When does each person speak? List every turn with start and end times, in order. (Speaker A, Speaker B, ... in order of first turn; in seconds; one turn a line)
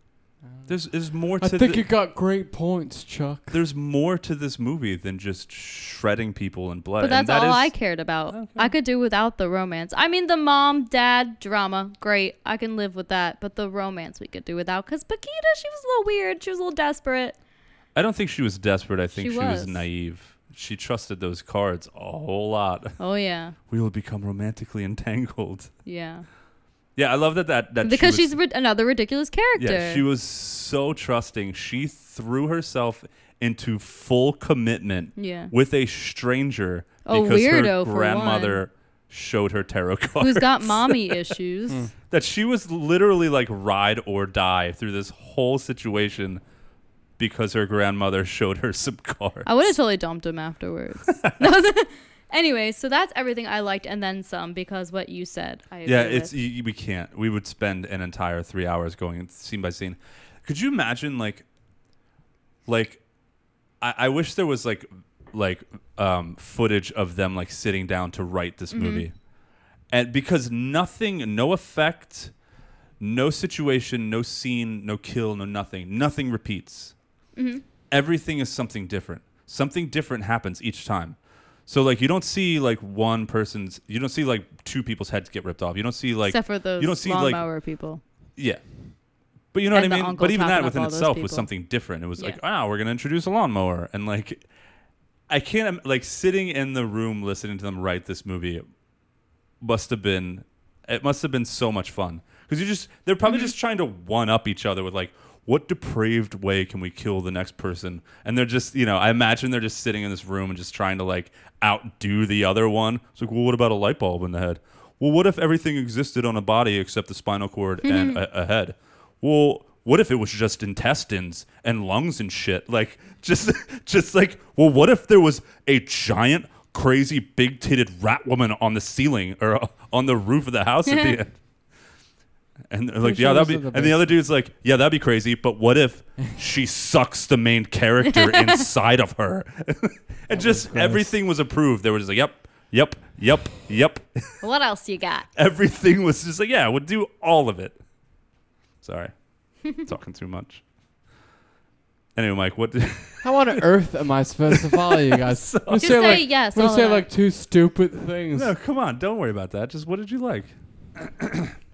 Speaker A: 0.4-3.6
Speaker B: 0.7-1.9
Speaker B: 3.5-7.8
Speaker C: 7.0-17.4
Speaker B: 8.3-8.7
Speaker B: 17.9-23.0
Speaker C: 19.1-19.8
Speaker C: 23.0-23.5
Speaker B: 23.7-25.7
Speaker C: 25.8-26.3
Speaker B: 26.9-28.3
Speaker C: 27.8-30.0
Speaker B: 29.6-41.3
Speaker C: 35.1-35.5
Speaker C: 37.0-38.6
Speaker C: 40.2-41.9
Speaker B: 42.1-46.4
Speaker B: 47.2-49.7
Speaker C: 49.4-56.4
Speaker B: 55.8-61.4
Speaker B: 62.6-63.0
Speaker B: 63.8-69.2
Speaker C: 68.7-69.0
Speaker B: 69.9-72.3
Speaker B: 73.0-76.9
Speaker C: 77.3-77.6
Speaker B: 77.9-87.5
Speaker C: 86.3-88.0
Speaker B: 88.4-88.6
Speaker B: 89.5-94.5
Speaker C: 89.7-91.5
Speaker B: 95.3-98.7
Speaker B: 99.6-131.4
Speaker C: 103.2-103.5
Speaker C: 117.8-118.2
Speaker B: 132.7-144.4
Speaker A: 133.0-134.1
Speaker C: 138.1-138.5
Speaker A: 140.3-141.2
Speaker C: 144.4-145.3
Speaker B: 145.3-147.8
Speaker B: 148.8-150.6
Speaker B: 152.1-153.7
Speaker A: 153.2-158.5
Speaker B: 154.6-155.9
Speaker C: 155.7-157.1
Speaker B: 158.3-161.5